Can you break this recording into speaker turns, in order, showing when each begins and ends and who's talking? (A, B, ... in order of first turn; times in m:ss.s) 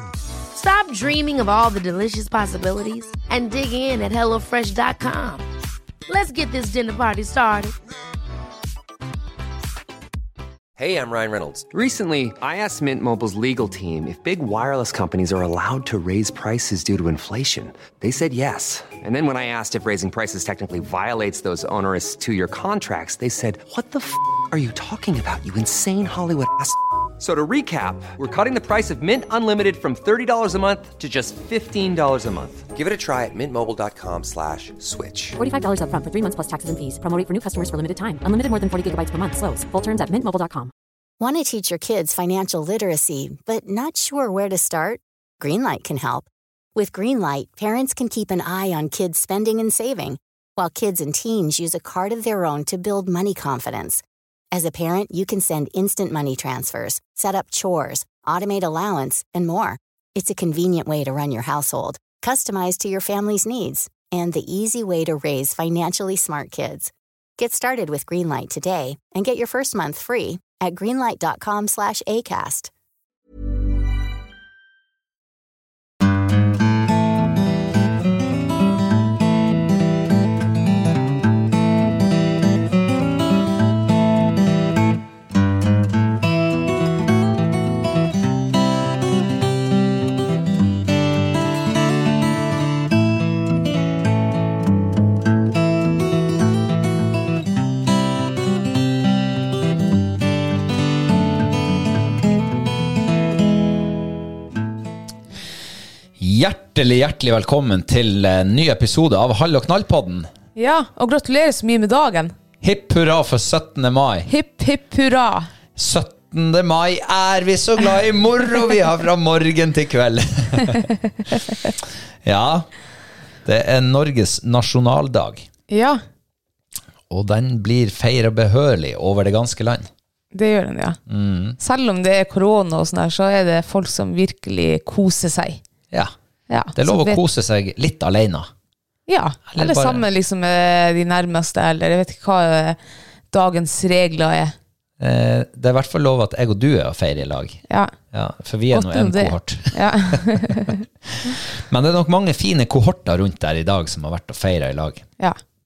0:00.5-0:05.5 A
0:06.1-0:07.8 A
0:10.8-0:35.4 B
0:35.4-0:40.7 C
0:41.2-1:12.7 D
1:46.2-1:50.3 E
1:50.6-1:52.3 F
1:52.6-1:54.3 E
1:54.3-1:55.5 F
1:55.8-2:00.9 E
2:01.8-2:02.7 E
2:03.4-2:05.5 E
2:05.7-2:06.0 F
2:07.1-2:09.9 E
2:10.3-2:11.0 F
2:11.1-2:11.6 E
2:11.6-2:15.6 F
2:16.5-2:17.2 F
2:16.8-2:18.5 E
2:19.1-2:22.8 F
2:19.5-2:20.0 E
2:23.3-2:24.6 F
2:25.0-2:35.0 E
2:27.7-2:27.9 F
2:28.7-2:30.8 F